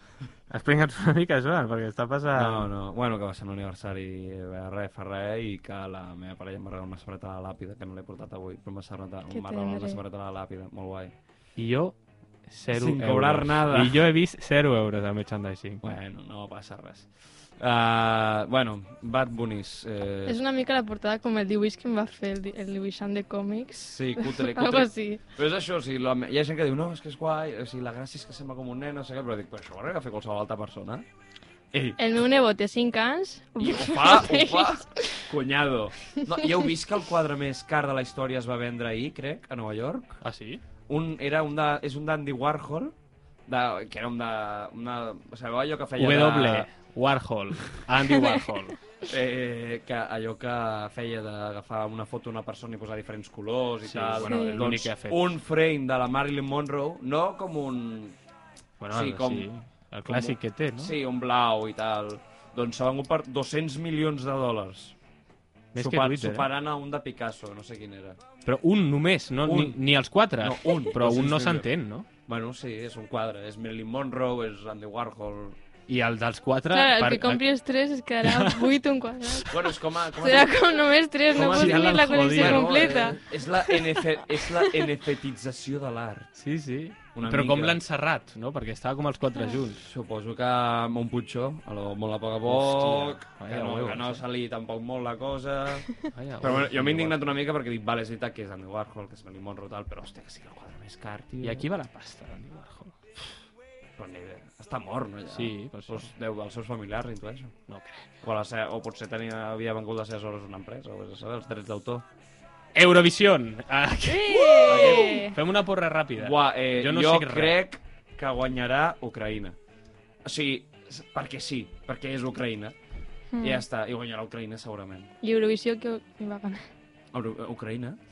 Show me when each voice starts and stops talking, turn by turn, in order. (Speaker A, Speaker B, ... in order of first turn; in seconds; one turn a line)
Speaker A: 0.5-2.7
Speaker B: 2.3-11.1
Speaker C: 9.3-10.0
Speaker A: 11.6-12.0
Speaker A: 12.5-15.8
Speaker B: 12.7-14.0
Speaker B: 15.8-20.4
Speaker C: 20.3-25.2
Speaker B: 23.9-31.1
Speaker B: 31.7-32.0
Speaker C: 32.0-35.3
Speaker B: 33.6-40.2
Speaker A: 40.2-40.6
Speaker B: 40.9-43.0
Speaker B: 43.5-46.7
Speaker A: 46.0-48.8
Speaker B: 49.1-58.2
Speaker A: 53.8-55.3
Speaker C: 54.2-54.6
Speaker A: 58.8-60.9
Speaker B: 58.9-59.5
Speaker B: 60.1-65.0
Speaker A: 65.7-66.5
Speaker B: 65.8-68.2
Speaker A: 68.5-72.1
Speaker B: 69.4-69.8
Speaker B: 70.4-71.7
Speaker B: 72.3-75.6
Speaker A: 75.9-77.4
Speaker C: 76.7-79.5
Speaker A: 78.2-78.8
Speaker A: 79.3-79.5
Speaker B: 79.5-80.6
Speaker C: 80.2-84.7
Speaker B: 81.3-86.3
Speaker A: 81.3-83.1
Speaker A: 86.4-89.8
Speaker B: 87.2-87.8
Speaker B: 89.7-101.7
Speaker A: 92.5-94.2
Speaker A: 96.1-97.2
Speaker A: 101.4-103.2
Speaker B: 104.0-107.5
Speaker A: 105.3-106.1
Speaker A: 107.7-108.1
Speaker B: 108.2-112.0
Speaker A: 112.8-117.6
Speaker C: 114.1-115.3
Speaker B: 114.6-115.3
Speaker B: 116.2-119.6
Speaker B: 120.2-122.8
Speaker C: 123.3-123.6
Speaker B: 123.4-125.1
Speaker C: 125.2-126.7
Speaker B: 127.1-128.0